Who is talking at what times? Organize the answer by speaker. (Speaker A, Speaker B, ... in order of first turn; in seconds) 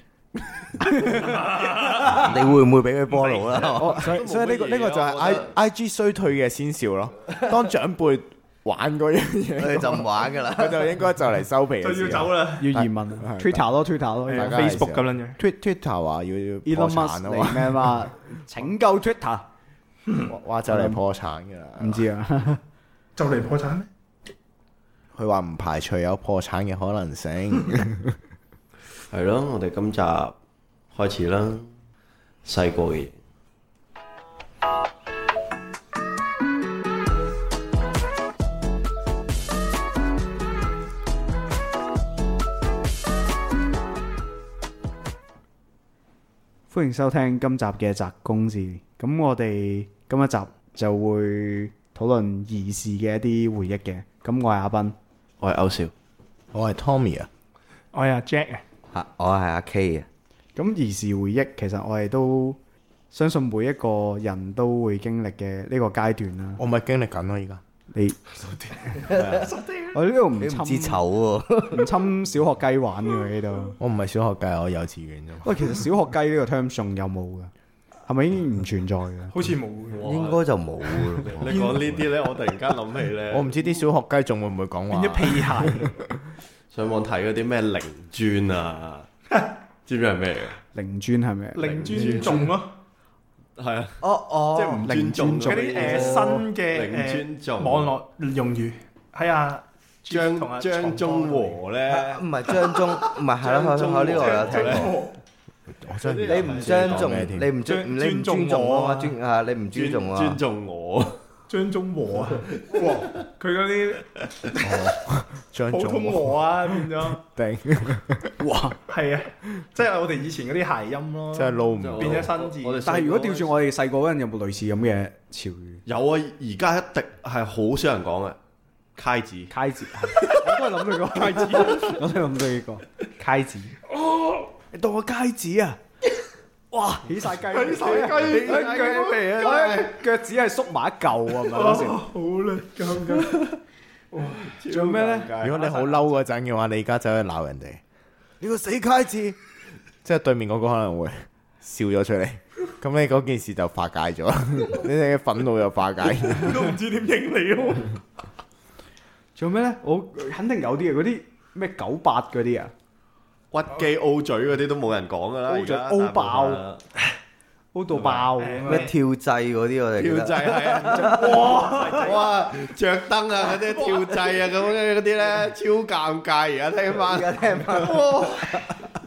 Speaker A: 0.8-1.6, 3.7-4.2, 12.6-14.7, 16.6-19.5, 20.7-21.0, 21.8-22.6, 46.7-55.0, 60.5-62.6, 63.1-66.6, 67.9-69.0, 69.9-71.0, 71.7-73.8, 75.4-77.5, 78.0-79.4, 90.7-92.4, 94.8-96.3, 118.4-118.8, 122.8-125.8, 129.5-133.8, 134.7-135.8, 136.7-142.1, 144.7-145.3, 159.3-162.7, 165.5-166.6, 167.7-168.9, 170.9-172.1
Speaker B: 1.2-2.2, 11.8-12.7, 14.3-15.4, 23.1-23.9, 57.9-58.6, 68.7-70.0, 79.3-80.0, 81.4-81.9, 84.9-85.9, 91.5-92.8, 95.4-101.6, 104.1-105.2, 107.6-109.2, 111.5-114.8, 115.7-117.2, 118.9-122.8, 137.5-139.7, 141.5-143.5, 144.1-144.5, 145.6-146.1, 156.3-158.0, 168.4-168.9, 171.3-172.4
Speaker C: 2.0-4.0, 9.6-11.0, 58.9-60.1, 69.0-69.5, 70.3-71.9, 80.0-81.4, 94.0-94.9, 101.9-105.0, 106.3-110.4, 168.6-171.6, 176.9-178.8
Speaker D: 3.1-5.5, 29.1-30.3, 30.9-31.7, 32.4-33.1, 55.4-55.9, 79.9-80.4, 81.1-83.5, 86.7-89.1, 89.8-90.5, 91.6-92.5, 93.6-97.9, 100.1-104.9, 106.0-107.3, 109.7-111.2, 112.4-113.2, 121.8-123.5, 125.8-128.4, 129.0-129.5, 137.5-140.0, 144.2-145.7, 163.5-166.8, 167.9-168.4, 170.0-178.8
Speaker E: 4.0-13.7, 14.3-18.1, 20.3-22.1, 25.1-28.2, 56.5-57.3, 66.6-67.6, 69.1-69.5, 73.8-75.8, 81.4-82.0, 83.3-86.2, 105.8-107.5, 114.6-118.3, 121.3-122.3, 145.4-147.8, 148.4-149.4, 150.0-156.8